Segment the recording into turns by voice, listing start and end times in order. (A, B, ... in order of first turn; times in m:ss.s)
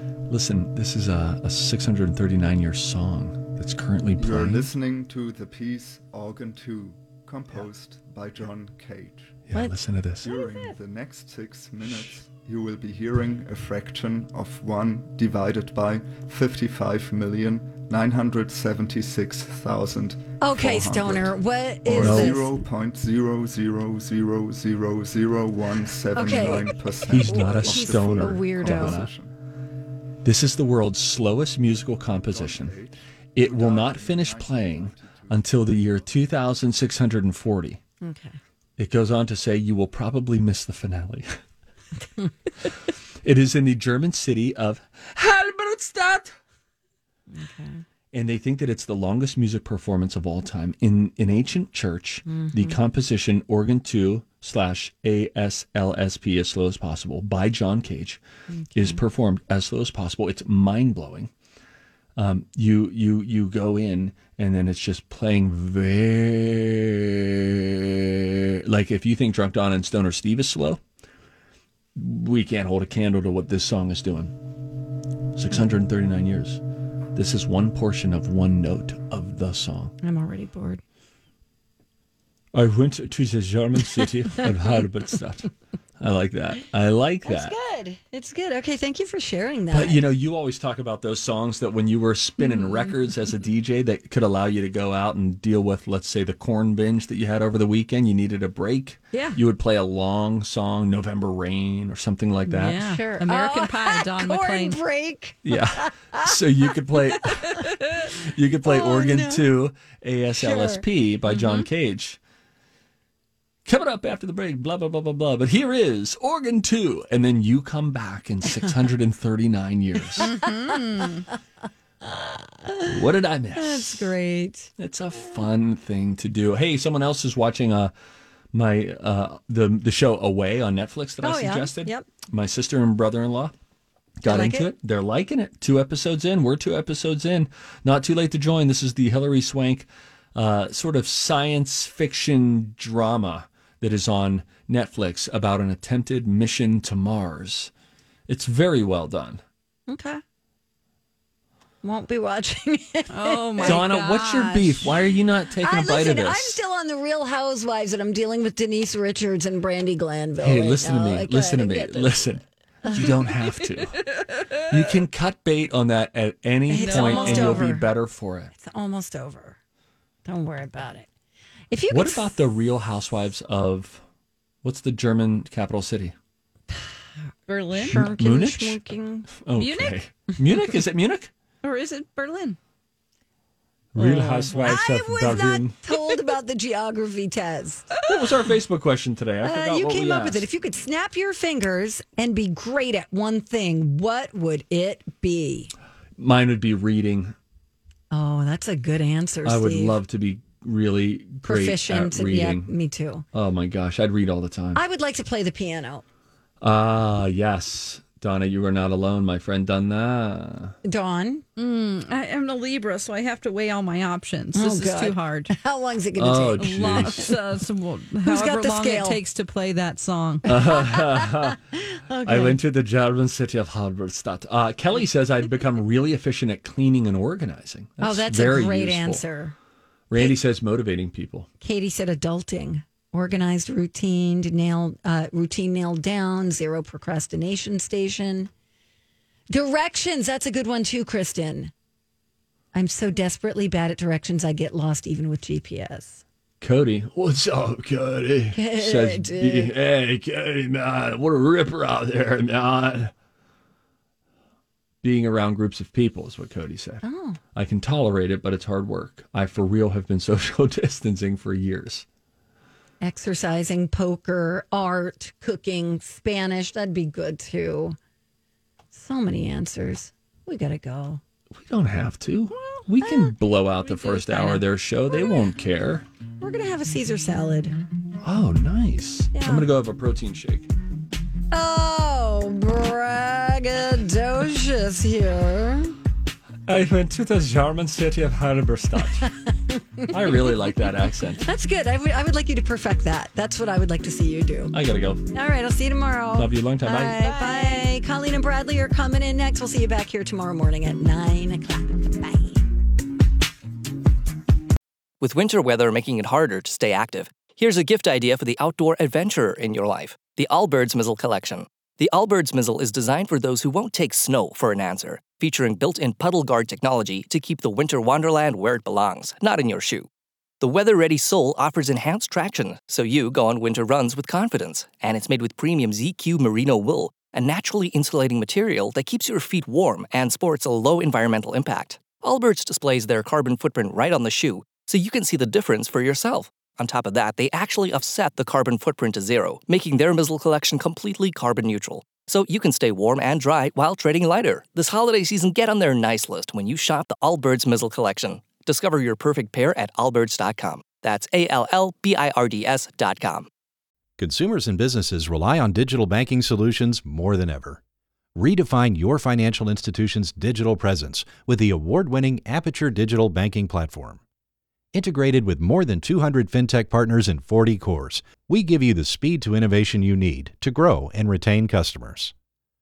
0:00.3-0:04.7 A
0:04.2-0:09.4 B
0:09.5-0:10.3 A
0:10.2-0:29.3 B
0:10.3-0:10.7 C
0:11.8-0:12.2 A
0:20.4-0:22.6 C
0:22.0-0:22.4 A
0:26.1-0:29.1 C
0:27.1-0:29.1 A
0:30.2-0:32.8 A
0:32.1-0:36.1 B
0:33.4-0:37.8 A
0:38.0-0:38.4 C
0:38.8-0:41.3 A
0:43.2-0:46.3 A
0:47.3-0:47.8 C
0:48.1-0:58.2 A
0:52.3-0:52.8 C
0:58.5-0:59.0 C
0:58.8-1:01.3 A
1:02.2-1:10.8 A
1:12.0-1:14.4 A
1:15.4-1:16.6 A
1:17.2-1:20.0 A
1:20.0-1:20.8 C
1:22.5-1:25.5 A
1:26.0-1:27.5 A
1:27.2-1:30.0 C
1:29.7-1:42.8 A
1:32.4-1:32.8 C
1:42.5-1:44.8 D
1:42.7-1:46.4 C
1:45.4-1:52.2 A
1:48.6-1:49.5 C
1:50.4-1:50.8 C
1:51.3-1:51.7 D
1:53.7-2:00.3 A
2:00.2-2:01.1 C
2:00.2-2:01.3 D
2:02.1-2:02.9 C
2:02.9-2:04.1 A
2:03.6-2:04.7 C
2:04.8-2:07.9 A
2:08.5-2:13.5 A
2:11.2-2:12.1 C
2:14.2-2:27.7 A
2:14.3-2:14.7 C
2:28.3-2:29.4 A
2:29.9-2:30.2 C
2:31.8-2:33.8 C
2:33.1-2:34.9 D
2:33.6-2:36.6 A
2:35.6-2:42.2 C
2:40.4-2:44.0 A
2:42.9-2:43.3 C
2:44.7-2:48.5 A
2:46.7-2:47.9 C
2:46.7-2:47.7 D
2:48.5-2:49.6 C
2:50.2-2:51.1 C
2:51.7-2:52.3 C
2:51.9-2:54.0 A
2:54.6-2:56.1 A
2:57.5-2:58.0 D
2:57.8-2:59.3 C
2:57.9-2:58.8 A
2:59.4-3:01.3 A
2:59.6-3:00.0 D
3:01.6-3:02.6 D
3:03.9-3:05.8 A
3:04.0-3:08.1 C
3:04.2-3:04.8 D
3:08.0-3:10.5 A
3:09.4-3:15.7 C
3:16.2-3:17.3 A
3:18.1-3:20.0 C
3:19.4-3:22.7 A
3:21.4-3:23.2 C
3:23.3-3:24.8 A
3:24.8-3:26.0 C
3:26.6-3:30.8 A
3:30.8-3:31.4 C
3:31.6-3:35.5 D
3:34.6-3:37.3 C
3:36.2-3:37.4 A
3:36.6-3:40.5 D
3:38.2-3:39.2 C
3:40.5-3:41.6 A
3:40.5-3:41.6 C
3:42.1-3:42.6 C
3:42.2-3:49.2 A
3:48.0-3:49.6 C
3:50.1-3:51.5 A
3:51.6-3:58.5 C
3:59.5-4:01.7 C
4:02.7-4:06.2 C
4:06.6-4:13.1 A
4:08.6-4:09.7 C
4:15.0-4:17.0 A
4:17.0-4:17.4 C
4:17.6-4:22.0 A
4:23.0-4:28.0 C
4:28.9-4:31.2 C
4:31.6-4:36.0 A
4:32.8-4:34.6 C
4:36.4-4:37.8 C
4:38.2-4:40.7 A
4:39.3-4:39.7 C
4:41.5-4:46.0 C
4:46.7-4:49.3 A
4:49.2-4:50.8 C
4:50.1-4:51.4 A
4:51.4-4:54.7 C
4:54.7-4:55.2 A
4:55.3-5:02.6 C
4:56.3-4:57.4 A
5:05.2-5:20.1 E
5:20.6-5:53.5 E
5:54.2-5:57.8 F
5:58.4-6:04.2 F
6:04.9-6:12.3 F